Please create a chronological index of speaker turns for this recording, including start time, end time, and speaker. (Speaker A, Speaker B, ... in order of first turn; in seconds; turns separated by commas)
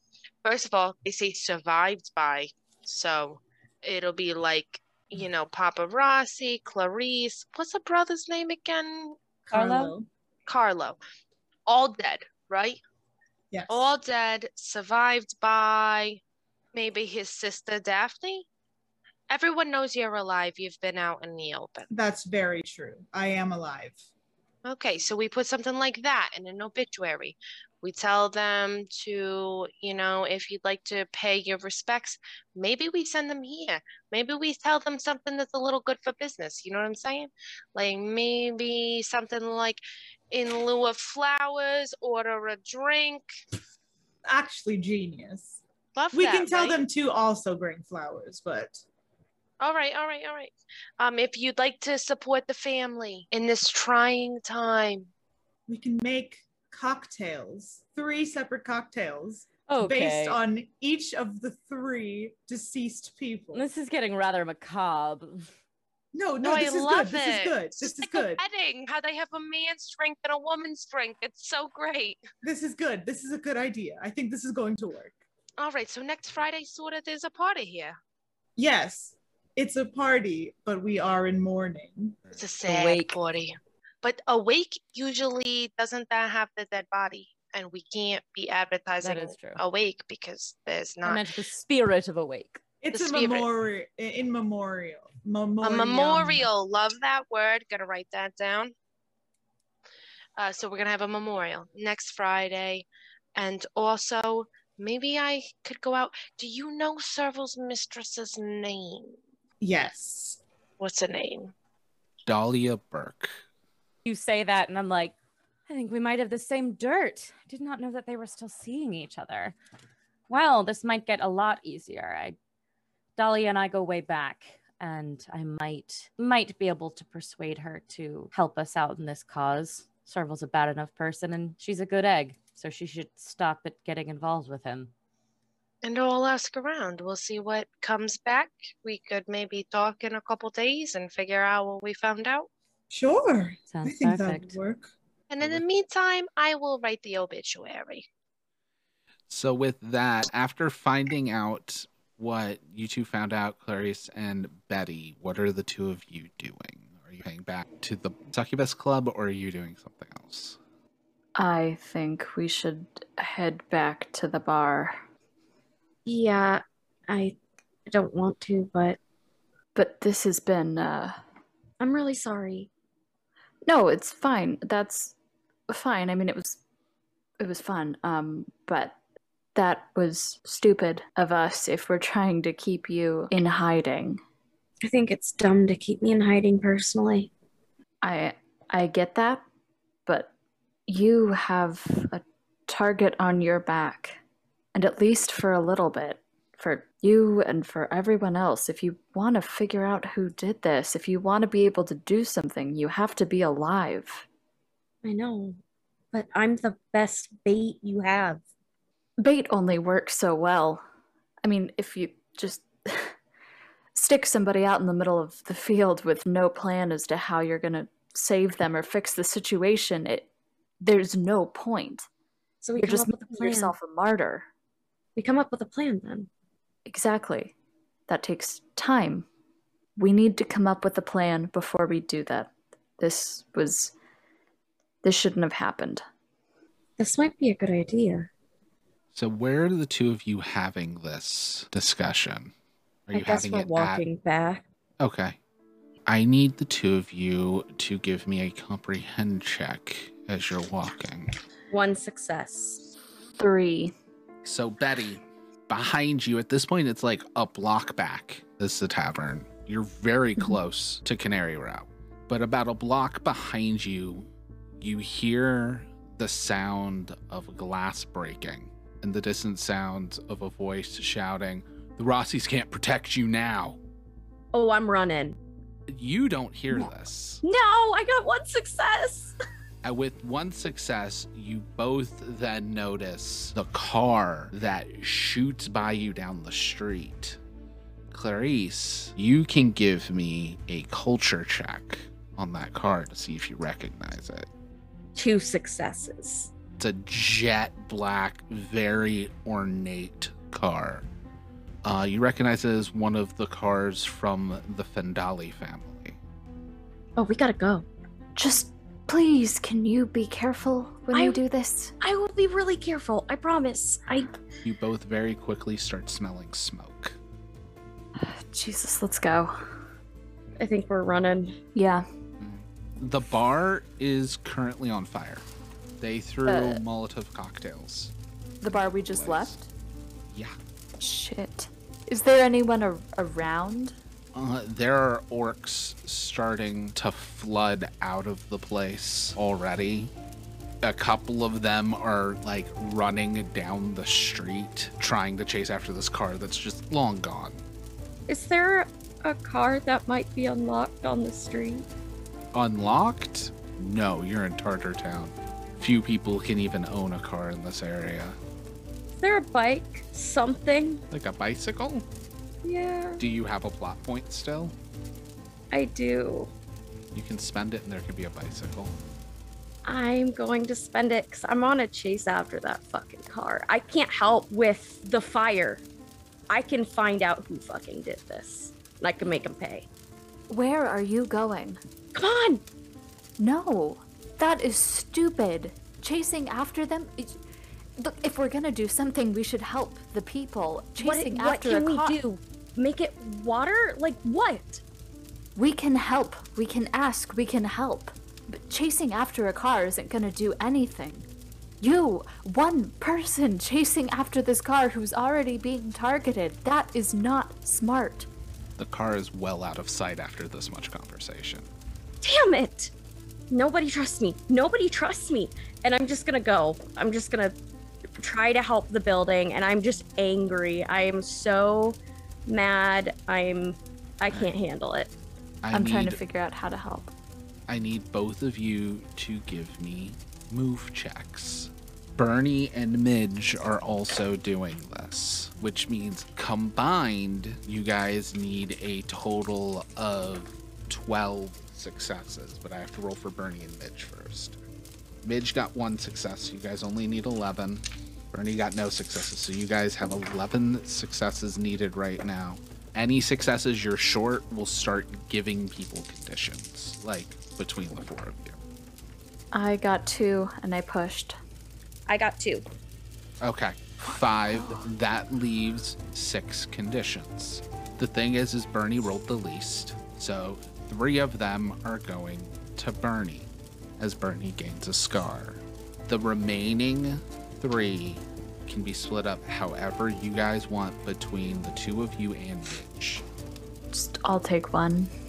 Speaker A: 0.4-9.2, Speaker B: 9.5-10.1, Speaker C: 9.5-9.9, Speaker A: 10.5-11.0, Speaker A: 11.7-12.8, Speaker B: 13.5-13.9, Speaker A: 13.7-16.2, Speaker A: 16.7-18.5, Speaker A: 19.3-21.9, Speaker B: 21.9-24.0, Speaker A: 24.6-43.3, Speaker B: 44.3-45.6, Speaker A: 46.0-46.8, Speaker B: 46.1-48.8, Speaker A: 49.6-55.1, Speaker B: 55.7-63.6, Speaker C: 59.7-60.4, Speaker C: 63.5-65.5, Speaker B: 66.1-68.4, Speaker A: 66.4-72.2, Speaker B: 72.4-75.2, Speaker A: 75.6-78.0, Speaker B: 78.6-82.2, Speaker A: 82.3-91.2, Speaker C: 82.7-83.2, Speaker C: 89.0-89.6, Speaker C: 91.0-92.6, Speaker B: 92.8-96.5, Speaker A: 92.9-93.5, Speaker A: 95.6-98.7, Speaker A: 100.4-109.2, Speaker B: 109.6-110.4, Speaker A: 110.8-111.5, Speaker D: 112.3-113.3, Speaker C: 114.0-115.1, Speaker C: 115.7-119.5, Speaker C: 120.3-122.4, Speaker C: 123.2-134.9, Speaker A: 135.8-142.5, Speaker B: 142.9-144.9, Speaker C: 143.7-144.6, Speaker A: 145.3-148.1, Speaker D: 149.3-160.6, Speaker E: 161.4-165.0, Speaker F: 166.1-169.0, Speaker E: 169.8-171.2, Speaker F: 171.8-172.7, Speaker E: 173.7-175.2, Speaker E: 175.7-176.6, Speaker E: 177.4-179.0, Speaker E: 179.6-184.2, Speaker F: 184.8-187.3, Speaker E: 188.0-189.4, Speaker E: 190.1-190.3, Speaker E: 190.9-194.2, Speaker E: 194.8-204.3, Speaker F: 205.0-205.6, Speaker F: 206.1-208.4, Speaker E: 209.2-210.8, Speaker E: 211.4-213.2, Speaker E: 213.9-220.3, Speaker E: 220.8-222.1, Speaker F: 222.6-223.7, Speaker E: 222.8-224.5, Speaker F: 225.2-226.3, Speaker E: 226.9-227.5, Speaker E: 228.1-229.3, Speaker E: 230.0-233.9, Speaker E: 235.0-236.0, Speaker F: 237.0-238.3, Speaker D: 239.1-242.5, Speaker D: 243.1-244.0, Speaker F: 243.1-244.6, Speaker D: 245.0-245.4, Speaker D: 246.1-251.3, Speaker F: 251.7-252.8, Speaker E: 253.4-253.9, Speaker D: 254.4-264.3, Speaker D: 264.8-273.8, Speaker F: 274.5-275.4, Speaker D: 275.9-277.4, Speaker F: 277.4-279.3, Speaker D: 279.8-287.4, Speaker D: 288.1-294.5, Speaker F: 295.2-296.5, Speaker D: 296.8-301.1, Speaker D: 301.8-306.2, Speaker F: 307.2-307.9, Speaker E: 308.4-311.9, Speaker F: 311.1-311.4, Speaker F: 312.0-314.3, Speaker D: 314.6-317.2, Speaker E: 318.2-319.7, Speaker F: 320.6-321.6, Speaker E: 321.8-322.1, Speaker D: 322.4-325.5, Speaker D: 326.0-328.1, Speaker E: 326.5-326.8, Speaker E: 328.6-329.7, Speaker D: 328.7-329.6, Speaker D: 330.3-330.6, Speaker E: 331.0-334.0, Speaker D: 334.3-340.1, Speaker D: 340.8-347.6, Speaker F: 348.3-351.9, Speaker D: 352.5-358.4, Speaker F: 359.2-361.0, Speaker D: 361.1-362.1, Speaker F: 362.6-363.2, Speaker D: 363.2-364.8, Speaker F: 365.7-366.5, Speaker D: 367.1-368.9, Speaker F: 369.9-375.9, Speaker F: 376.5-379.9, Speaker E: 380.5-381.8, Speaker F: 382.1-382.6, Speaker E: 383.4-387.4, Speaker E: 388.0-392.2, Speaker F: 391.0-394.8, Speaker E: 395.6-401.3, Speaker E: 401.8-408.3, Speaker D: 408.8-411.7, Speaker F: 412.2-412.9, Speaker F: 413.5-417.6, Speaker F: 418.2-425.1, Speaker D: 425.6-426.2, Speaker E: 425.7-427.1, Speaker D: 427.7-444.6, Speaker D: 445.2-458.6, Speaker E: 459.5-461.4, Speaker F: 462.1-462.6, Speaker D: 463.4-483.2, Speaker E: 483.9-485.1